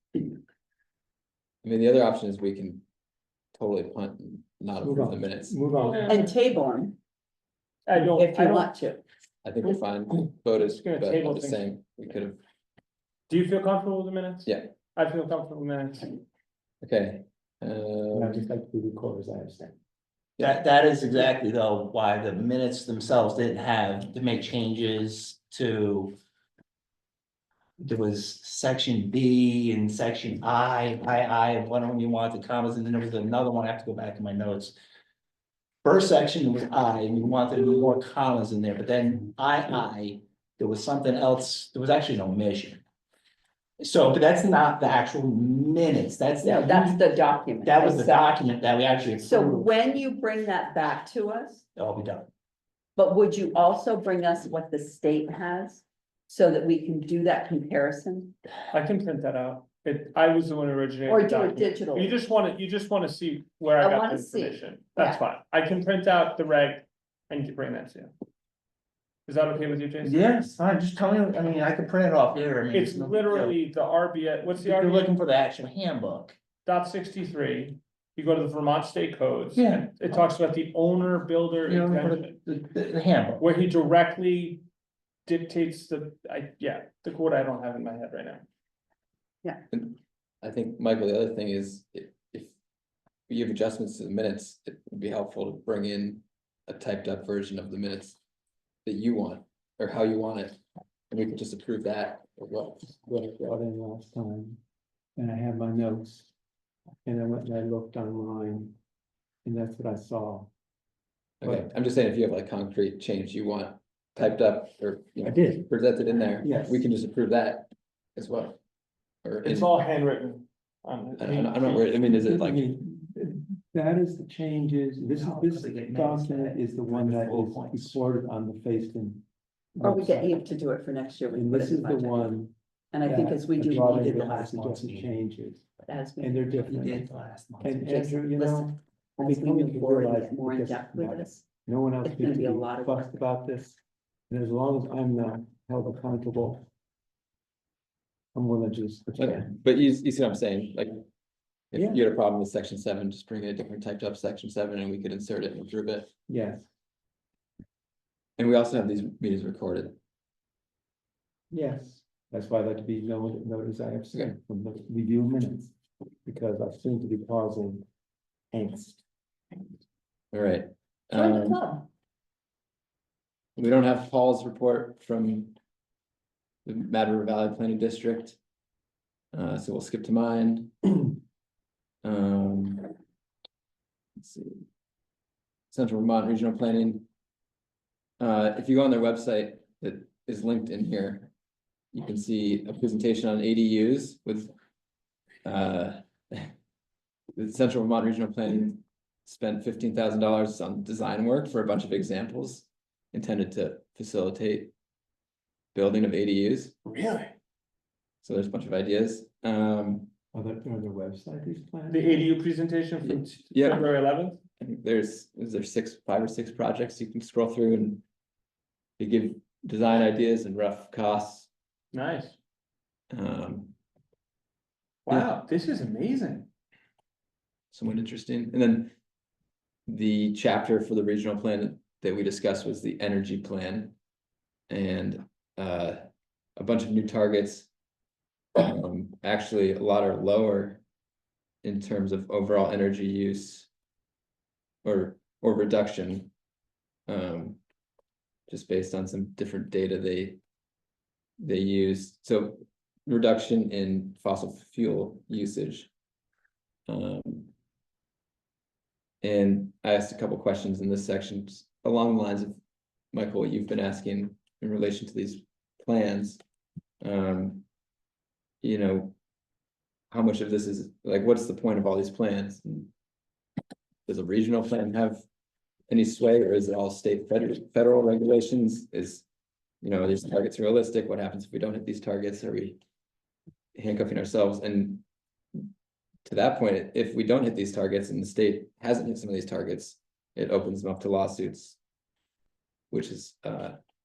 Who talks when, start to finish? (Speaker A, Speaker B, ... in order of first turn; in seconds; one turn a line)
Speaker A: 1.6-2.8
Speaker A: 3.5-5.5
Speaker B: 4.8-6.2
Speaker C: 5.8-6.3
Speaker D: 6.1-7.0
Speaker C: 7.9-8.7
Speaker D: 8.0-9.0
Speaker A: 9.4-12.4
Speaker C: 10.5-11.6
Speaker C: 13.3-16.1
Speaker A: 14.4-14.7
Speaker A: 16.8-18.4
Speaker B: 18.1-19.7
Speaker E: 20.4-26.1
Speaker E: 27.8-34.7
Speaker E: 35.8-42.8
Speaker E: 43.8-47.0
Speaker D: 46.4-48.3
Speaker E: 47.6-49.7
Speaker D: 49.2-51.6
Speaker E: 51.8-52.3
Speaker D: 53.0-58.3
Speaker C: 58.7-68.1
Speaker D: 61.1-62.1
Speaker D: 63.8-65.2
Speaker C: 69.3-70.2
Speaker E: 70.0-73.6
Speaker C: 72.7-75.1
Speaker E: 74.5-76.4
Speaker C: 76.6-82.3
Speaker E: 79.5-80.2
Speaker E: 81.7-83.4
Speaker C: 83.4-84.6
Speaker C: 85.2-88.4
Speaker A: 89.7-92.5
Speaker A: 93.3-98.2
Speaker A: 98.8-100.6
Speaker A: 101.1-102.9
Speaker B: 103.0-104.6
Speaker B: 105.2-106.3
Speaker B: 107.0-108.8
Speaker B: 109.4-110.5
Speaker A: 111.4-118.6
Speaker B: 115.2-115.7
Speaker B: 116.4-116.8
Speaker A: 119.2-119.7
Speaker C: 119.4-121.8
Speaker A: 121.2-122.7
Speaker B: 121.7-129.2
Speaker E: 125.1-128.0
Speaker B: 129.7-130.4
Speaker D: 129.8-132.3
Speaker B: 131.3-135.7
Speaker D: 132.9-134.0
Speaker E: 133.8-135.1
Speaker D: 135.8-136.6
Speaker B: 136.2-137.1
Speaker E: 136.6-137.9
Speaker B: 137.6-143.8
Speaker D: 137.9-141.4
Speaker D: 142.0-143.1
Speaker B: 144.3-146.6
Speaker B: 148.3-149.5
Speaker A: 149.2-151.0
Speaker A: 151.7-156.1
Speaker B: 151.7-152.0
Speaker B: 156.3-156.7
Speaker A: 158.4-159.9
Speaker B: 161.5-165.7
Speaker B: 166.2-167.8
Speaker B: 168.5-169.0
Speaker A: 170.3-171.6
Speaker D: 171.1-171.8
Speaker A: 173.6-175.5
Speaker A: 176.6-178.4
Speaker A: 179.3-181.1
Speaker A: 182.0-182.9
Speaker A: 184.2-184.6
Speaker A: 185.7-187.1
Speaker A: 188.2-191.3
Speaker A: 191.9-194.5
Speaker A: 195.4-196.5
Speaker A: 197.3-204.7
Speaker A: 205.7-206.8
Speaker C: 206.8-207.3
Speaker A: 208.2-210.1
Speaker B: 210.3-212.3
Speaker C: 211.9-214.4
Speaker A: 213.1-213.9
Speaker A: 214.6-218.0
Speaker A: 219.0-221.5
Speaker C: 221.9-222.4
Speaker A: 223.1-223.8
Speaker C: 225.1-226.5
Speaker A: 227.7-228.9
Speaker A: 229.9-233.9
Speaker A: 234.7-236.0
Speaker A: 236.6-237.7
Speaker A: 238.6-240.8
Speaker A: 241.6-243.7
Speaker A: 244.8-246.3
Speaker A: 247.1-247.6
Speaker A: 248.5-250.4
Speaker A: 251.4-255.9
Speaker A: 256.9-257.5
Speaker A: 259.2-262.6
Speaker A: 263.1-266.4
Speaker A: 267.0-267.6
Speaker A: 268.6-269.1
Speaker A: 270.1-272.9
Speaker A: 274.1-275.2
Speaker A: 275.9-279.2
Speaker A: 279.8-282.8
Speaker A: 283.8-285.0
Speaker A: 286.2-291.8
Speaker A: 292.9-293.8